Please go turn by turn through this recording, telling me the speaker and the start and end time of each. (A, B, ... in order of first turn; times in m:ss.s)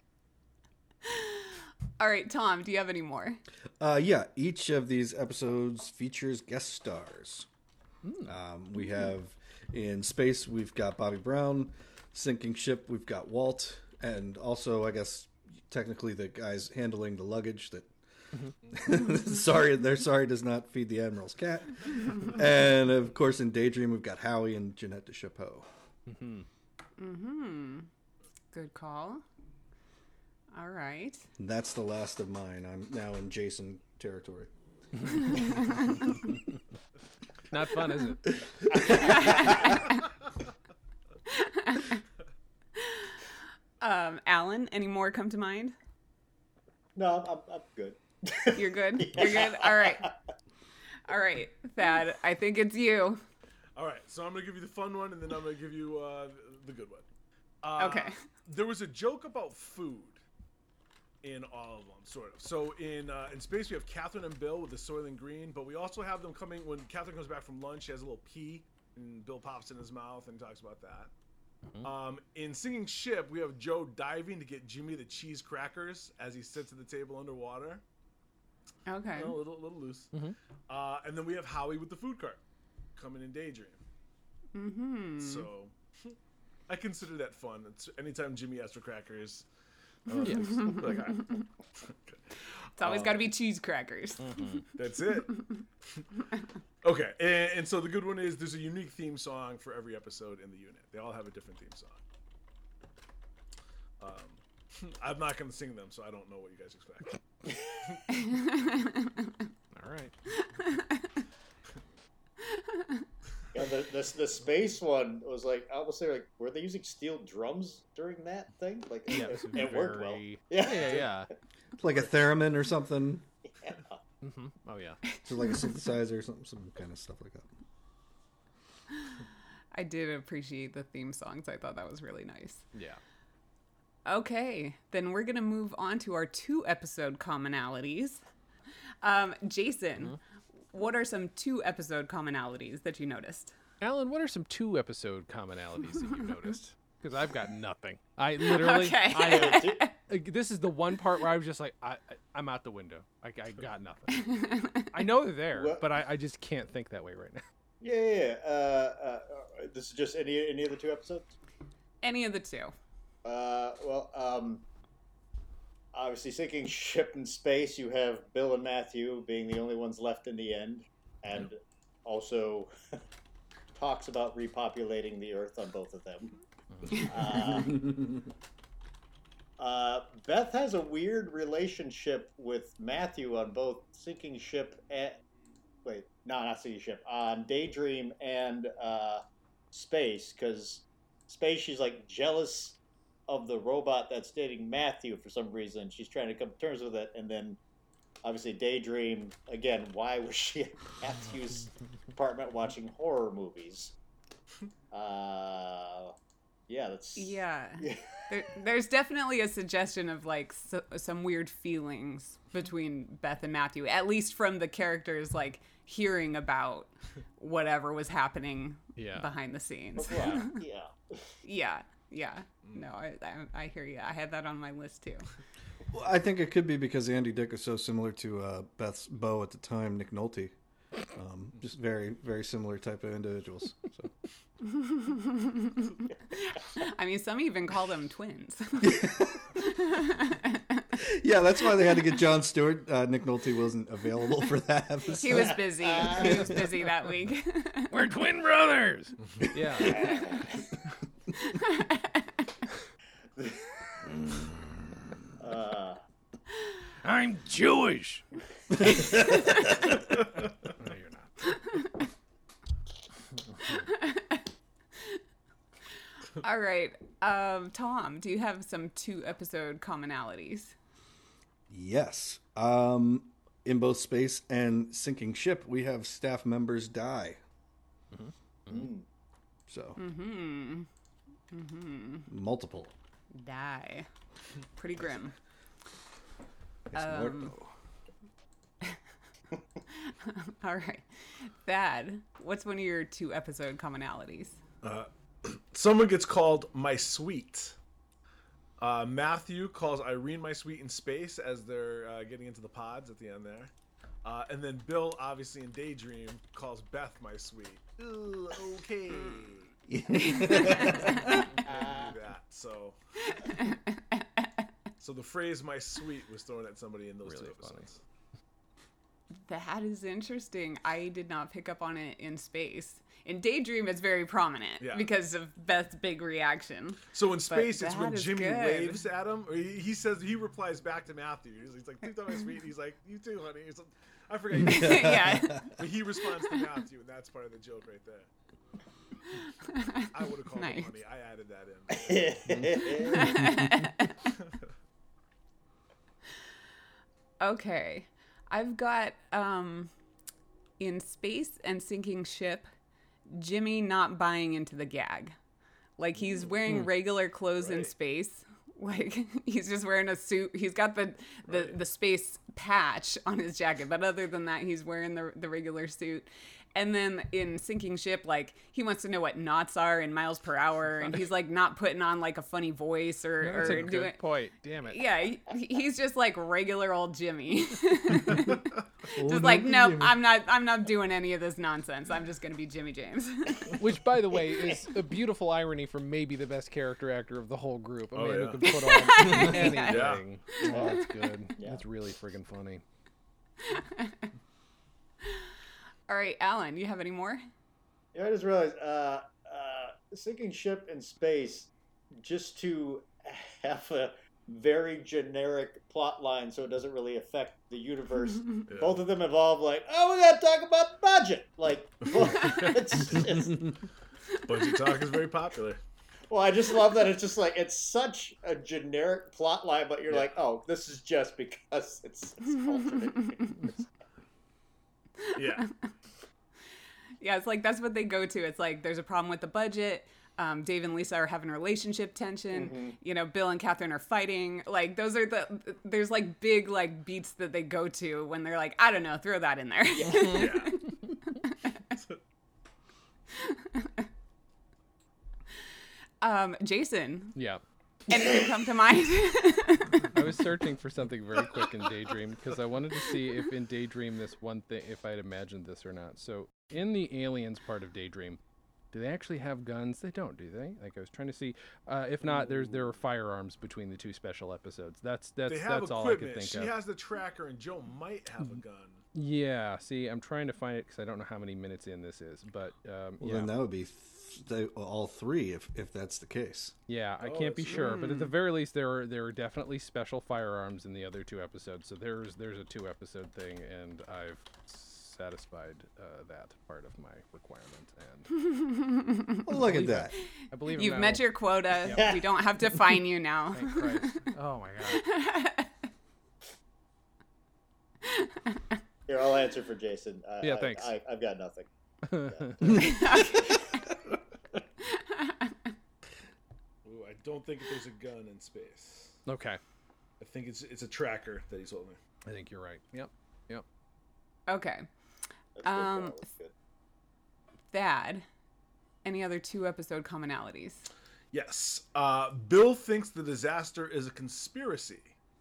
0:01.1-0:01.4 A
0:02.0-0:03.4 A
0:03.8-0:07.5 B
0:08.0-0:08.3 C
0:08.2-0:17.9 B
0:18.7-0:25.7 B
0:26.1-0:26.4 C
0:27.0-0:27.9 A
0:28.5-0:29.2 A
0:30.5-0:31.3 A
0:31.4-0:34.5 B
0:37.5-0:38.4 C
0:38.9-0:40.0 A
0:39.0-0:39.5 D
0:41.3-0:42.0 A
0:42.8-0:43.1 A
0:43.8-0:45.7 A
0:46.9-0:50.1 D
0:48.5-0:50.0 A
0:51.1-0:53.2 A
0:53.8-0:57.1 E
0:57.6-1:00.2 E
0:57.8-0:58.2 A
1:01.2-1:11.1 E
1:11.8-1:17.8 E
1:18.9-1:19.4 A
1:19.1-1:20.1 E
1:20.7-1:22.4 E
1:23.0-1:23.8 E
1:24.5-1:25.5 A
1:25.2-1:26.1 E
1:26.7-1:29.5 E
1:30.1-1:32.2 E
1:30.6-1:31.4 A
1:32.8-1:34.6 A
1:32.8-1:33.2 E
1:34.2-1:34.6 C
1:34.8-1:36.0 E
1:36.8-1:42.0 E
1:44.0-1:47.2 E
1:48.2-1:49.3 A
1:49.7-1:50.1 C
1:50.4-1:51.2 A
1:52.5-1:53.0 A
1:53.5-2:01.2 D
1:59.1-2:01.3 C
2:01.8-2:03.2 B
2:03.6-2:04.0 D
2:04.2-2:05.0 C
2:05.2-2:07.5 B
2:09.7-2:12.6 A
2:12.7-2:13.0 C
2:14.0-2:18.2 A
2:19.0-2:20.2 A
2:20.7-2:23.6 A
2:23.8-2:37.4 C
2:28.4-2:29.9 A
2:29.2-2:29.8 D
2:34.3-2:34.9 A
2:35.5-2:35.8 D
2:37.8-2:41.3 D
2:42.0-2:42.7 A
2:43.2-2:44.6 D
2:45.9-2:52.7 D
2:53.7-2:56.4 D
2:56.7-2:57.1 C
2:56.9-2:57.9 D
2:57.8-2:58.0 B
2:59.6-3:05.2 D
3:05.8-3:17.6 D
3:18.2-3:23.9 D
3:24.9-3:26.1 D
3:26.7-3:28.0 D
3:27.2-3:40.6 A
3:39.0-3:39.3 C
3:40.0-3:40.9 D
3:41.4-3:45.3 A
3:45.9-3:50.5 B
3:51.1-3:54.1 B
3:54.8-3:59.1 A
3:58.8-3:59.4 B
3:59.6-4:00.6 A
4:01.0-4:06.7 B
4:05.2-4:07.9 A
4:05.8-4:06.5 D
4:07.9-4:10.3 C
4:09.8-4:10.6 D
4:11.4-4:12.2 A
4:14.1-4:15.1 C
4:15.4-4:16.0 D
4:17.0-4:18.2 C
4:20.6-4:21.6 C
4:21.6-4:21.9 A
4:23.7-4:24.4 A
4:26.4-4:30.7 A
4:31.7-4:37.4 B
4:38.1-4:38.8 C
4:38.7-4:39.0 D
4:39.7-4:40.0 B
4:40.0-4:40.9 A
4:41.5-4:42.3 A
4:42.3-4:42.9 B
4:43.3-4:44.1 A
4:44.8-4:45.3 A
4:46.9-4:47.7 B
4:46.9-4:47.5 A
4:50.0-4:54.6 A
4:54.8-4:57.8 E
4:58.8-5:03.7 E
5:04.2-5:09.7 E
5:09.9-5:11.4 B
5:10.4-5:11.1 A
5:10.8-5:13.0 E
5:11.7-5:12.0 D
5:13.3-5:14.2 A
5:15.0-5:18.0 E
5:17.2-5:17.9 C
5:19.4-5:29.0 A
5:24.8-5:25.1 E
5:27.1-5:38.3 E
5:34.6-5:35.7 A
5:34.6-5:35.7 B
5:39.7-5:40.9 A
5:40.0-5:42.7 E
5:42.1-5:43.4 D
5:43.0-5:44.2 A
5:43.4-5:43.7 B
5:47.4-5:49.9 A
5:50.8-5:52.7 A
5:53.3-5:55.4 A
5:56.0-6:14.2 A
5:57.6-5:57.9 E
6:01.5-6:01.8 E
6:13.4-6:15.1 C
6:14.9-6:18.6 A
6:18.4-6:18.8 E
6:19.1-6:20.2 B
6:19.2-6:23.8 A
6:23.7-6:32.8 C
6:28.1-6:30.2 E
6:28.6-6:31.1 A
6:30.7-6:31.0 D
6:33.7-6:34.2 A
6:36.1-6:37.4 A
6:38.1-6:53.7 D
6:48.7-6:49.0 E
6:54.4-6:55.8 E
6:56.3-7:03.8 D
7:05.2-7:05.8 A
7:05.4-7:05.6 E
7:07.2-7:21.7 A
7:12.5-7:13.0 D
7:20.1-7:20.8 E
7:23.4-7:23.9 A
7:26.2-7:27.4 A
7:27.4-7:27.6 C
7:28.1-7:30.1 A
7:30.1-7:38.4 C
7:38.9-7:46.7 C
7:45.4-7:49.0 E
7:49.1-7:53.5 C
7:53.2-7:56.7 B
7:56.9-8:08.3 C
7:57.2-7:58.0 E
7:58.0-7:58.2 A
8:08.4-8:09.5 A
8:09.4-8:10.1 B
8:09.6-8:11.2 C
8:10.4-8:14.3 A
8:11.9-8:12.3 D
8:13.5-8:15.0 C
8:14.9-8:15.7 A
8:18.1-8:18.7 A
8:19.1-8:23.4 D
8:20.4-8:20.9 C
8:22.0-8:22.9 C
8:22.7-8:23.7 A
8:24.9-8:25.5 A
8:26.8-8:29.2 E
8:29.3-8:29.6 C
8:30.2-8:32.0 E
8:32.2-8:33.6 C
8:34.5-8:34.9 A
8:35.6-8:36.5 D
8:35.6-8:36.2 A
8:37.7-8:38.2 A
8:39.0-8:40.9 A
8:41.3-8:45.2 E